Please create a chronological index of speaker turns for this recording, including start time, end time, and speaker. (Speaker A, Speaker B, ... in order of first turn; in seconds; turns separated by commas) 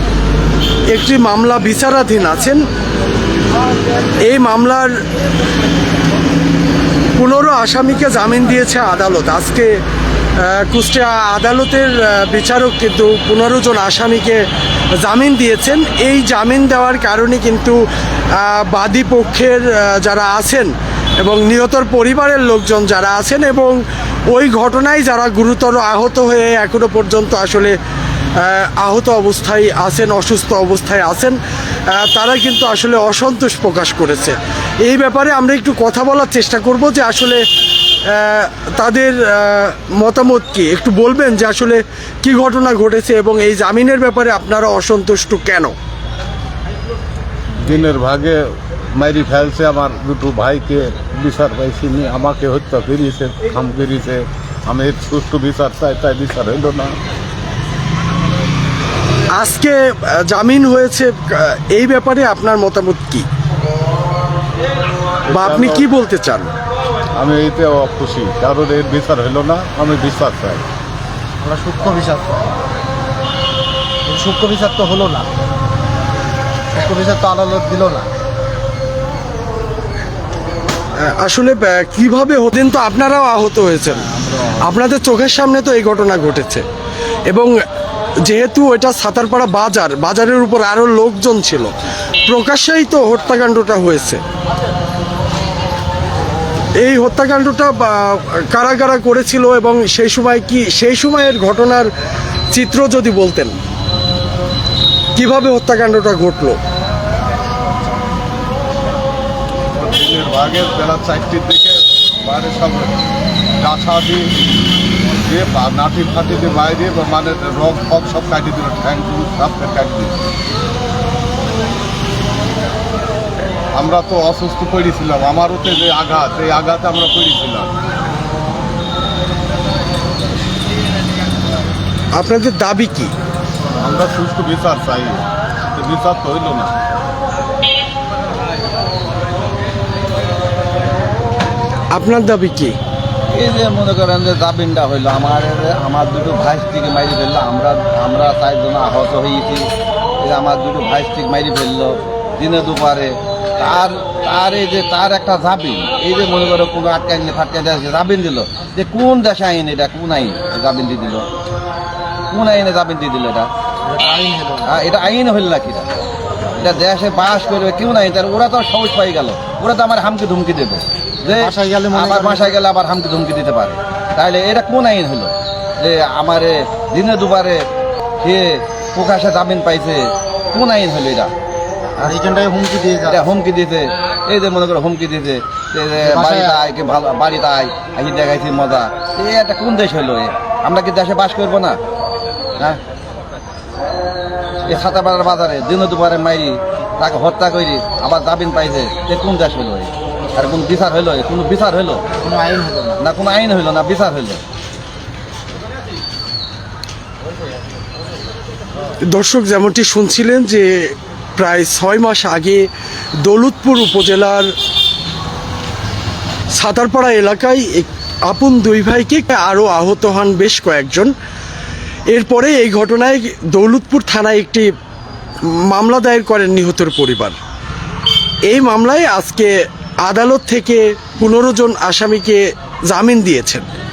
Speaker A: 0.9-2.6, Speaker A: 4.2-4.9, Speaker A: 7.2-9.7, Speaker A: 10.4-17.8, Speaker A: 18.3-23.8, Speaker A: 24.3-27.8, Speaker A: 28.4-31.4, Speaker A: 31.9-37.4, Speaker A: 38.0-45.7, Speaker B: 47.6-57.0, Speaker A: 59.3-63.3, Speaker A: 65.3-66.5, Speaker B: 65.3-65.8, Speaker B: 67.2-70.6, Speaker C: 71.4-72.4, Speaker C: 74.0-75.3, Speaker C: 76.7-78.1, Speaker A: 81.0-86.6, Speaker A: 88.2-91.7, Speaker A: 92.2-94.2, Speaker A: 96.8-101.9, Speaker A: 102.5-103.5, Speaker A: 105.2-106.6, Speaker B: 109.7-113.0, Speaker B: 113.6-114.2, Speaker B: 115.2-120.3, Speaker B: 123.7-127.7, Speaker A: 132.1-133.1, Speaker B: 133.8-136.7, Speaker A: 141.9-142.8, Speaker D: 143.3-149.7, Speaker D: 150.2-161.2, Speaker D: 162.3-163.5, Speaker C: 163.8-164.8, Speaker D: 164.7-165.9, Speaker D: 166.6-177.6, Speaker C: 171.3-172.6, Speaker D: 178.2-181.3, Speaker C: 182.0-183.3, Speaker D: 183.1-191.8, Speaker C: 186.0-186.6, Speaker D: 194.7-202.0, Speaker C: 202.1-203.0, Speaker D: 203.0-204.4, Speaker A: 209.1-212.7, Speaker A: 213.2-214.5, Speaker A: 216.5-221.1, Speaker A: 222.1-224.7, Speaker A: 225.5-227.4, Speaker A: 228.5-233.7